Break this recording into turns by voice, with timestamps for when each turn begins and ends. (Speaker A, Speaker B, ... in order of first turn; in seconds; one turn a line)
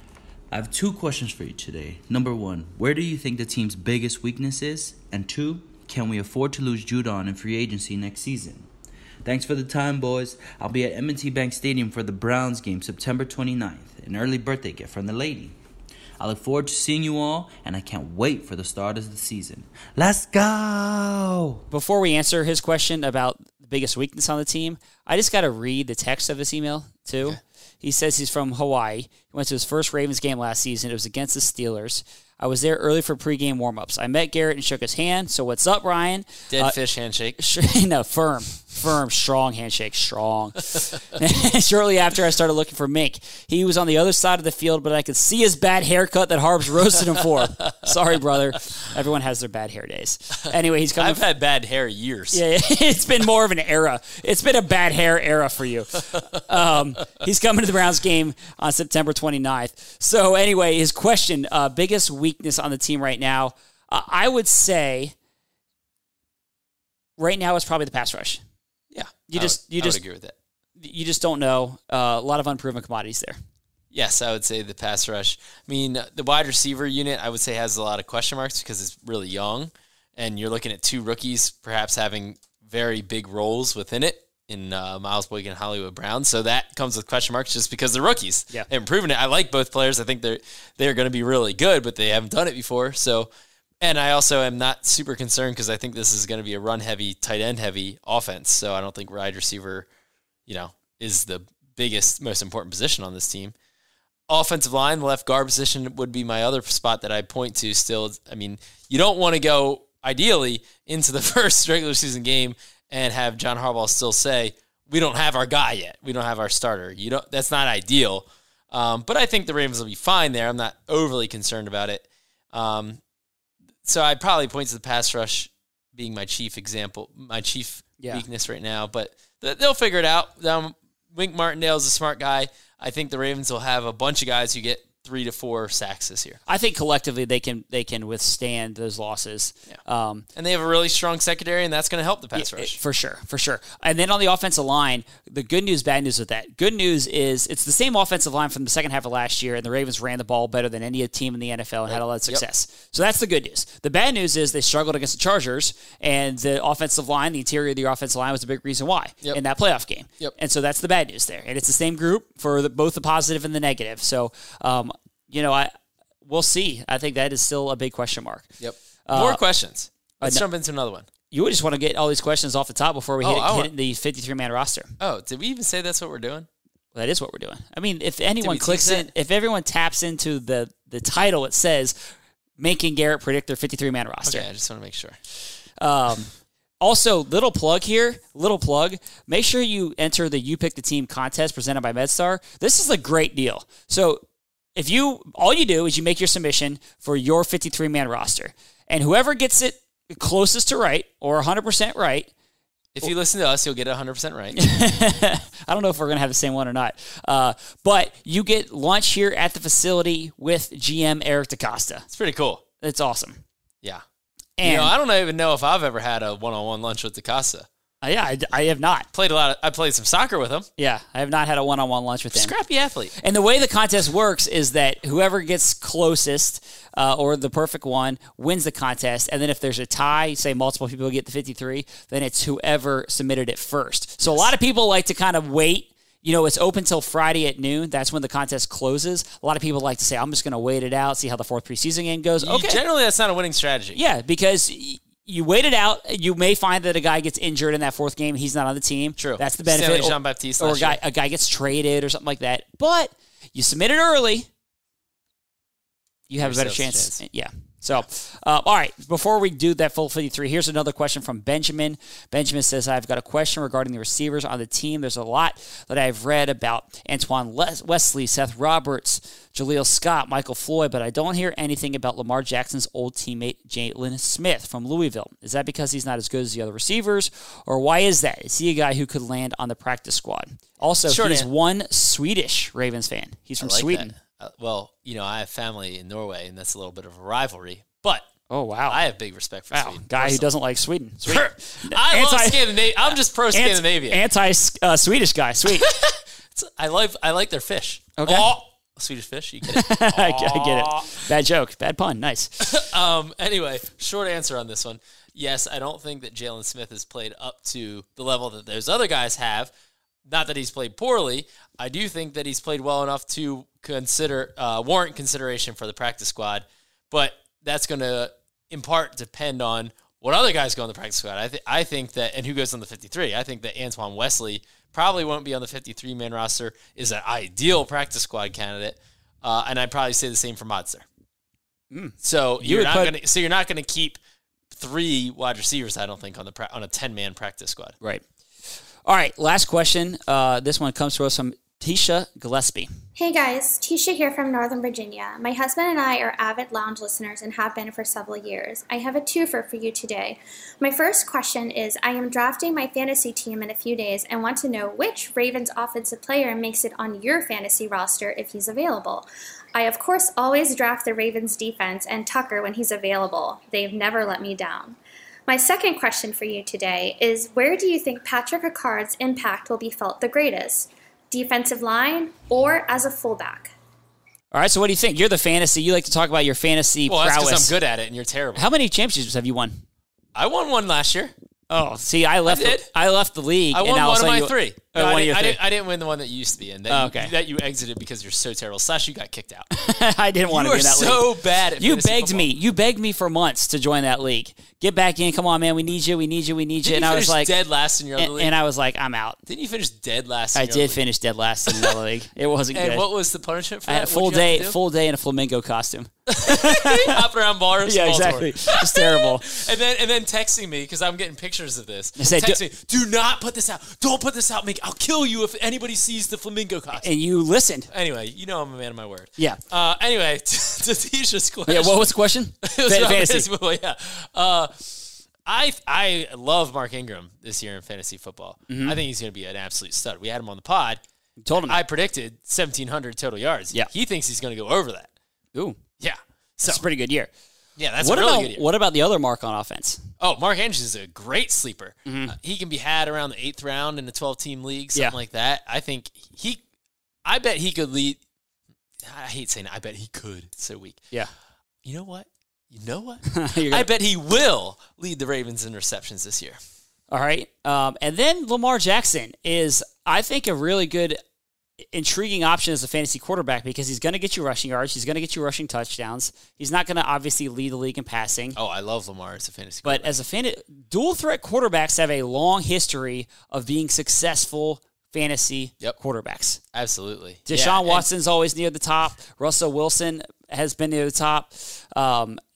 Speaker A: 0.5-8.7
Speaker A: 9.2-15.6
Speaker A: 16.2-21.6
Speaker B: 21.7-36.7
Speaker C: 36.5-37.4
Speaker B: 37.4-51.2
Speaker C: 51.0-52.4
Speaker B: 52.3-65.1
Speaker B: 67.2-68.4
Speaker C: 68.9-70.3
Speaker B: 69.3-70.0
Speaker B: 70.8-73.4
Speaker C: 73.9-93.3
Speaker C: 93.8-99.9
Speaker C: 100.5-103.5
Speaker C: 104.3-123.0
Speaker C: 123.8-136.4
Speaker B: 136.4-140.2
Speaker C: 140.3-142.8
Speaker B: 142.3-165.7
Speaker B: 166.2-168.5
Speaker C: 168.6-171.1
Speaker B: 169.1-169.4
Speaker B: 171.3-174.9
Speaker C: 173.2-173.7
Speaker C: 175.0-176.5
Speaker B: 176.9-181.9
Speaker C: 178.4-179.1
Speaker B: 182.6-184.4
Speaker C: 184.2-185.2
Speaker B: 185.8-194.2
Speaker B: 194.8-202.3
Speaker C: 202.9-204.6
Speaker B: 204.5-212.1
Speaker C: 212.1-212.6
Speaker B: 212.8-213.4
Speaker B: 214.6-214.9
Speaker C: 214.6-217.7
Speaker B: 218.0-219.1
Speaker C: 219.1-220.7
Speaker B: 220.8-222.5
Speaker C: 222.3-223.1
Speaker B: 223.2-242.8
Speaker C: 242.4-244.0
Speaker B: 243.9-254.5
Speaker C: 249.2-251.0
Speaker B: 256.3-284.1
Speaker C: 256.4-257.2
Speaker C: 281.1-281.5
Speaker C: 283.6-288.3
Speaker B: 288.5-289.0
Speaker C: 288.9-290.5
Speaker B: 289.7-295.9
Speaker C: 291.2-294.2
Speaker C: 295.7-301.3
Speaker B: 298.2-298.5
Speaker B: 299.7-302.6
Speaker C: 302.6-309.7
Speaker C: 310.3-331.0
Speaker B: 331.9-333.1
Speaker C: 332.2-334.2
Speaker C: 334.7-337.9
Speaker B: 339.0-342.9
Speaker D: 343.1-373.7
Speaker B: 374.5-377.7
Speaker C: 377.1-378.7
Speaker B: 378.6-379.8
Speaker C: 380.3-381.3
Speaker B: 381.7-385.6
Speaker C: 382.4-382.9
Speaker C: 383.7-389.7
Speaker B: 386.9-387.3
Speaker B: 389.7-391.3
Speaker C: 390.5-392.5
Speaker B: 391.8-397.5
Speaker C: 396.8-398.5
Speaker B: 398.2-399.4
Speaker C: 399.5-401.0
Speaker B: 400.5-403.0
Speaker C: 401.7-401.9
Speaker C: 402.7-404.8
Speaker B: 403.9-407.2
Speaker C: 406.3-417.1
Speaker B: 407.9-409.6
Speaker B: 412.2-412.6
Speaker B: 417.0-417.9
Speaker C: 417.9-431.0
Speaker B: 421.7-423.5
Speaker B: 428.7-429.0
Speaker B: 431.4-431.8
Speaker C: 431.6-435.1
Speaker B: 435.5-435.8
Speaker C: 436.0-436.8
Speaker B: 436.6-437.3
Speaker C: 437.8-438.6
Speaker B: 438.0-440.0
Speaker C: 440.2-446.6
Speaker B: 442.1-442.3
Speaker C: 447.2-448.2
Speaker C: 449.0-451.0
Speaker C: 451.8-456.6
Speaker B: 453.3-453.9
Speaker B: 457.1-461.2
Speaker B: 461.9-468.6
Speaker C: 468.6-470.1
Speaker B: 469.8-476.6
Speaker C: 476.7-478.1
Speaker B: 477.5-482.4